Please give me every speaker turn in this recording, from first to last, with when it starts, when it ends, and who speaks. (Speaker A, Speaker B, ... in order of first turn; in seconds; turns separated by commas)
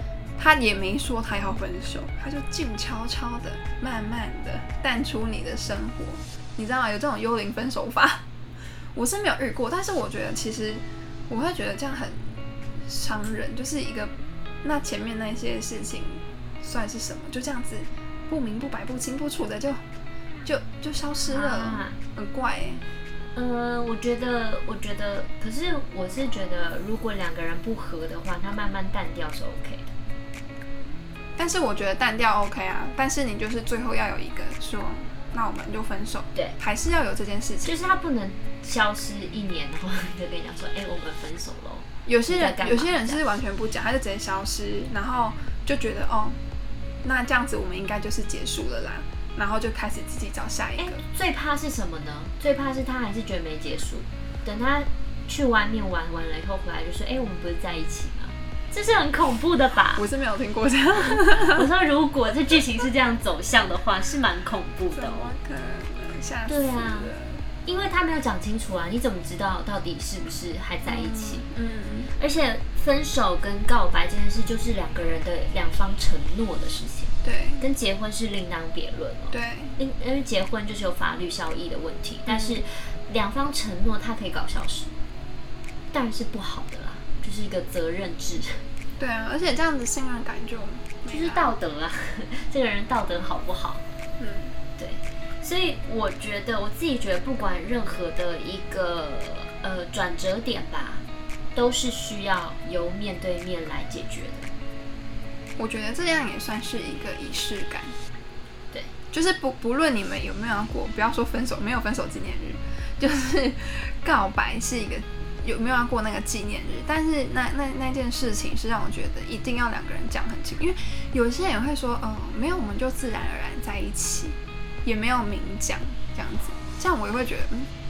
Speaker A: 0.4-8.2, Speaker A: 8.9-19.8, Speaker A: 20.4-22.8, Speaker B: 21.2-22.0, Speaker B: 23.3-29.9, Speaker A: 31.4-37.7, Speaker B: 37.6-43.2, Speaker A: 42.0-46.4, Speaker A: 47.0-51.0, Speaker B: 50.8-60.0, Speaker A: 60.0-61.7, Speaker B: 61.0-65.3, Speaker A: 64.9-67.5, Speaker B: 66.5-67.1, Speaker B: 67.6-71.5, Speaker A: 70.8-72.1, Speaker B: 72.2-84.9, Speaker A: 77.2-77.6, Speaker A: 79.3-79.8, Speaker A: 82.3-82.6, Speaker B: 85.9-88.6, Speaker A: 89.0-91.5, Speaker B: 91.0-93.8, Speaker A: 94.2-94.5, Speaker B: 94.8-101.0, Speaker B: 101.5-104.5, Speaker A: 105.6-107.9, Speaker A: 109.1-127.7